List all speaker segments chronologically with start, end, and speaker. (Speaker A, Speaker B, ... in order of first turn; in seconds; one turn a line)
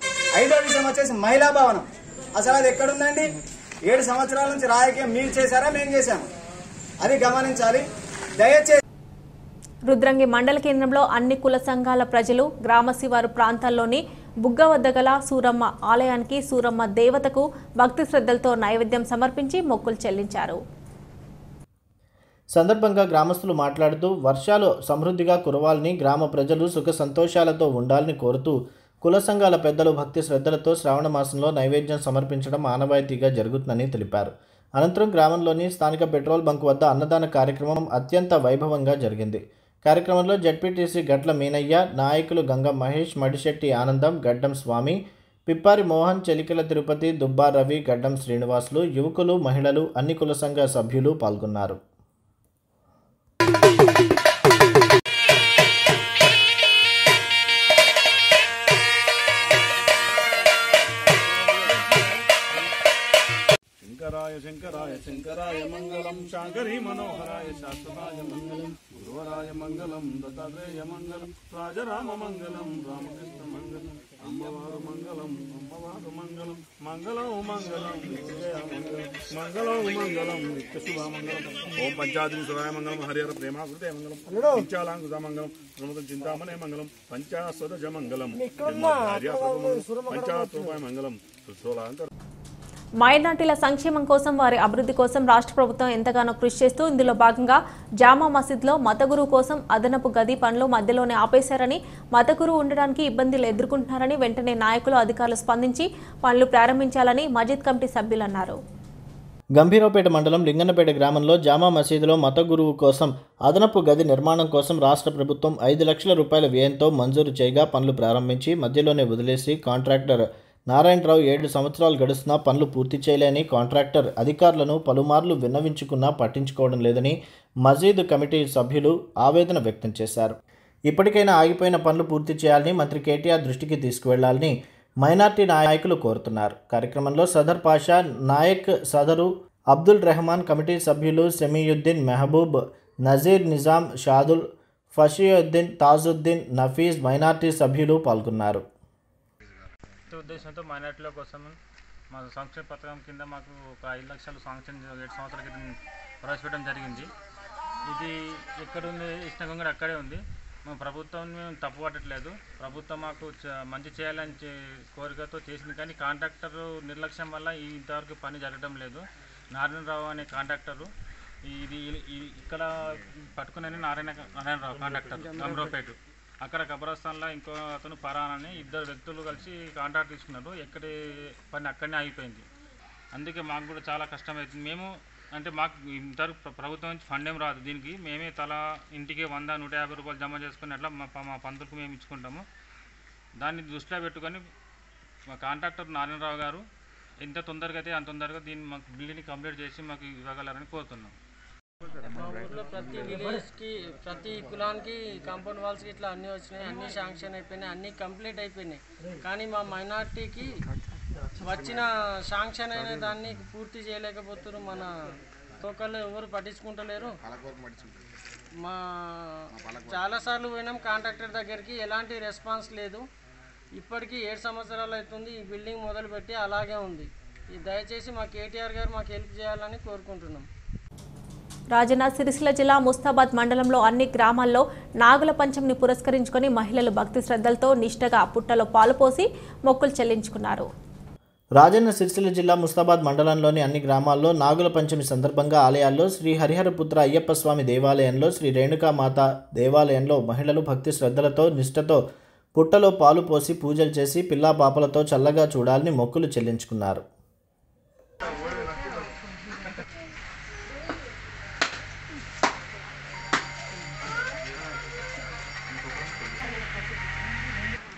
Speaker A: 0.3-3.3
Speaker A: 3.9-6.3
Speaker A: 7.0-7.8
Speaker A: 8.4-8.8
Speaker B: 9.9-20.6
Speaker C: 22.5-51.8
Speaker D: 61.4-62.0
Speaker D: 63.8-92.1
Speaker B: 93.0-108.6
Speaker C: 109.5-130.4
Speaker C: 130.9-148.6
Speaker E: 150.1-151.6
Speaker E: 152.1-155.7
Speaker E: 156.2-157.1
Speaker E: 157.9-169.0
Speaker E: 169.5-170.9
Speaker E: 171.5-180.9
Speaker D: 174.8-175.7
Speaker F: 175.3-175.7
Speaker E: 181.5-182.4
Speaker E: 183.1-192.4
Speaker E: 193.4-194.4
Speaker E: 195.3-196.6
Speaker E: 197.2-201.1
Speaker F: 202.2-210.5
Speaker F: 211.4-214.9
Speaker F: 215.6-217.2
Speaker F: 218.6-223.0
Speaker F: 223.8-230.5
Speaker B: 231.7-240.7
Speaker C: 241.6-252.0
Speaker C: 252.6-257.0